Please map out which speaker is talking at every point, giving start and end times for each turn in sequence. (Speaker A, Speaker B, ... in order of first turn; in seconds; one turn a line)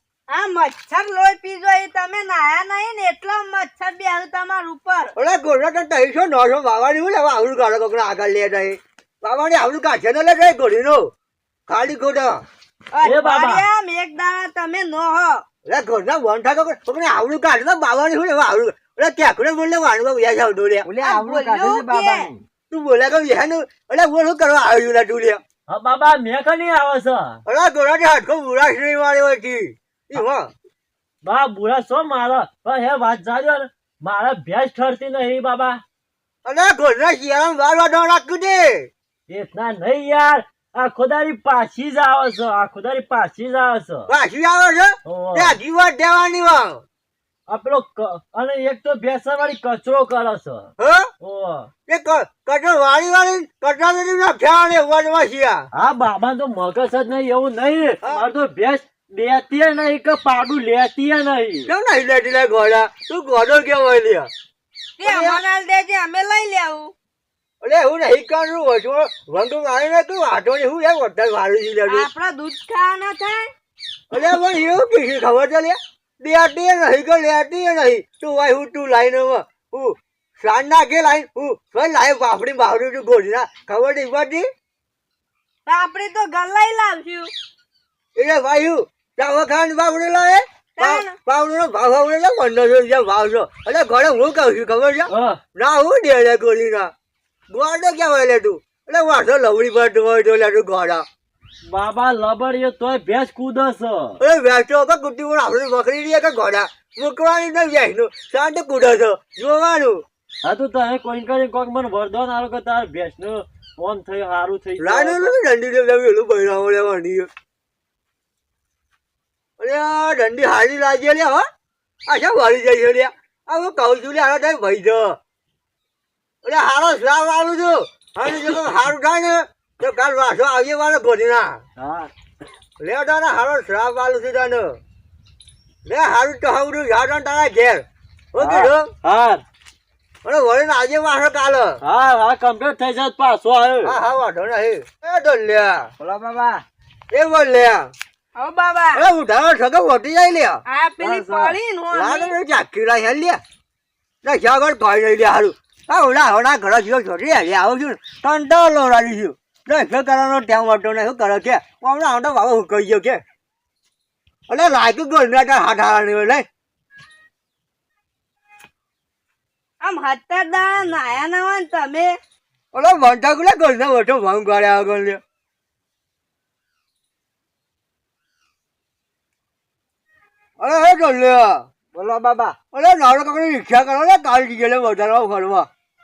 Speaker A: 0.3-5.1
Speaker B: 5.2-11.1
Speaker B: 11.7-12.4
Speaker A: 12.9-15.4
Speaker C: 13.0-13.7
Speaker B: 15.7-20.9
Speaker D: 20.9-22.4
Speaker A: 21.0-22.3
Speaker B: 22.7-25.4
Speaker C: 25.7-27.4
Speaker B: 27.4-30.5
Speaker C: 31.2-35.8
Speaker B: 36.5-38.9
Speaker C: 39.3-44.1
Speaker B: 44.1-46.8
Speaker C: 45.0-45.6
Speaker C: 47.5-50.7
Speaker B: 50.8-51.1
Speaker C: 51.2-51.7
Speaker B: 51.9-55.7
Speaker C: 55.7-61.7
Speaker B: 61.7-64.3
Speaker A: 65.0-66.9
Speaker B: 65.0-65.4
Speaker B: 67.6-72.1
Speaker A: 71.9-73.5
Speaker B: 74.1-84.5
Speaker A: 85.7-87.3
Speaker B: 88.2-96.9
Speaker A: 90.8-91.2
Speaker C: 95.1-95.4
Speaker B: 97.5-101.0
Speaker C: 101.7-104.2
Speaker B: 104.2-110.0
Speaker C: 110.4-115.3
Speaker B: 114.8-117.3
Speaker B: 119.6-121.5
Speaker B: 122.1-125.2
Speaker B: 126.4-131.6
Speaker C: 131.8-132.1
Speaker B: 132.8-134.8
Speaker B: 135.8-138.9
Speaker C: 138.4-139.4
Speaker B: 140.2-141.8
Speaker C: 141.8-144.0
Speaker B: 143.8-145.9
Speaker D: 146.0-146.6
Speaker B: 147.1-147.9
Speaker A: 148.4-149.1
Speaker B: 148.9-150.6
Speaker A: 150.7-152.3
Speaker D: 151.0-151.6
Speaker B: 151.9-153.4
Speaker B: 154.2-163.2
Speaker B: 164.5-166.5
Speaker A: 169.8-172.1
Speaker B: 172.7-175.2
Speaker B: 180.6-181.7
Speaker D: 181.9-182.6
Speaker B: 182.7-185.7